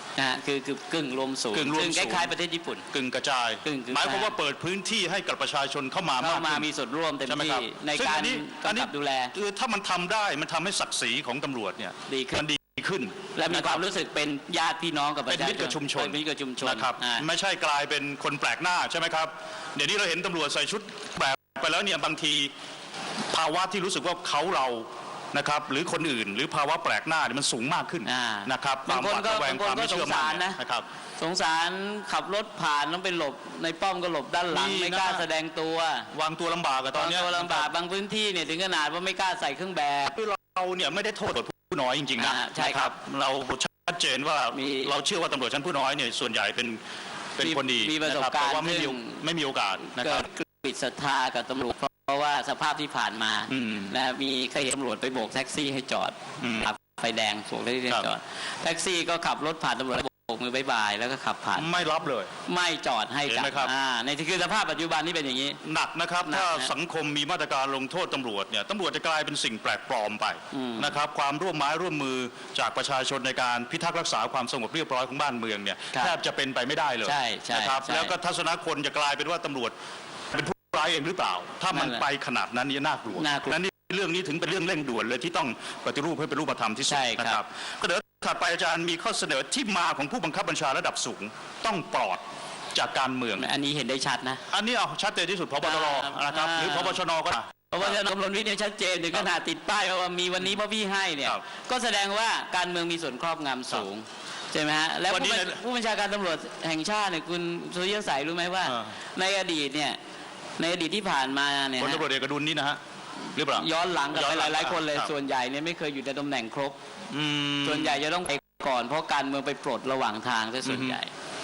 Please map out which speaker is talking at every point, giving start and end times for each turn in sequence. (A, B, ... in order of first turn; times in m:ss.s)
0:00.2-0:02.9 A
0:01.5-0:02.3 B
0:02.9-0:06.7 B
0:03.6-0:04.4 A
0:06.2-0:09.3 A
0:07.3-0:13.8 B
0:12.1-0:12.4 A
0:13.4-0:17.2 A
0:15.3-0:22.5 B
0:23.3-0:30.9 B
0:28.0-0:30.6 A
0:31.2-0:36.1 A
0:34.5-0:35.2 B
0:36.1-0:37.7 B
0:36.9-0:40.2 A
0:40.1-0:46.8 B
0:42.2-0:43.0 A
0:44.5-0:44.9 A
0:47.4-0:50.3 B
0:47.4-0:49.2 A
0:49.9-1:01.8 A
0:53.5-0:53.9 B
0:56.4-0:56.6 B
1:01.6-1:02.3 B
1:02.5-1:05.6 A
1:03.3-1:03.7 B
1:05.6-1:19.7 B
1:06.2-1:06.7 A
1:10.5-1:11.0 A
1:17.0-1:18.2 A
1:20.3-1:32.2 B
1:21.7-1:22.0 A
1:23.2-1:23.6 A
1:26.9-1:27.4 A
1:32.7-1:33.5 B
1:33.4-1:34.4 A
1:34.5-1:38.0 B
1:35.6-1:37.0 A
1:37.7-1:50.0 A
1:45.1-1:45.6 B
1:48.7-1:49.0 B
1:50.6-1:52.0 A
1:51.8-1:52.8 B
1:53.3-1:55.1 B
1:53.5-1:56.8 A
1:57.1-1:58.0 B
1:57.6-2:01.1 A
2:00.6-2:01.0 B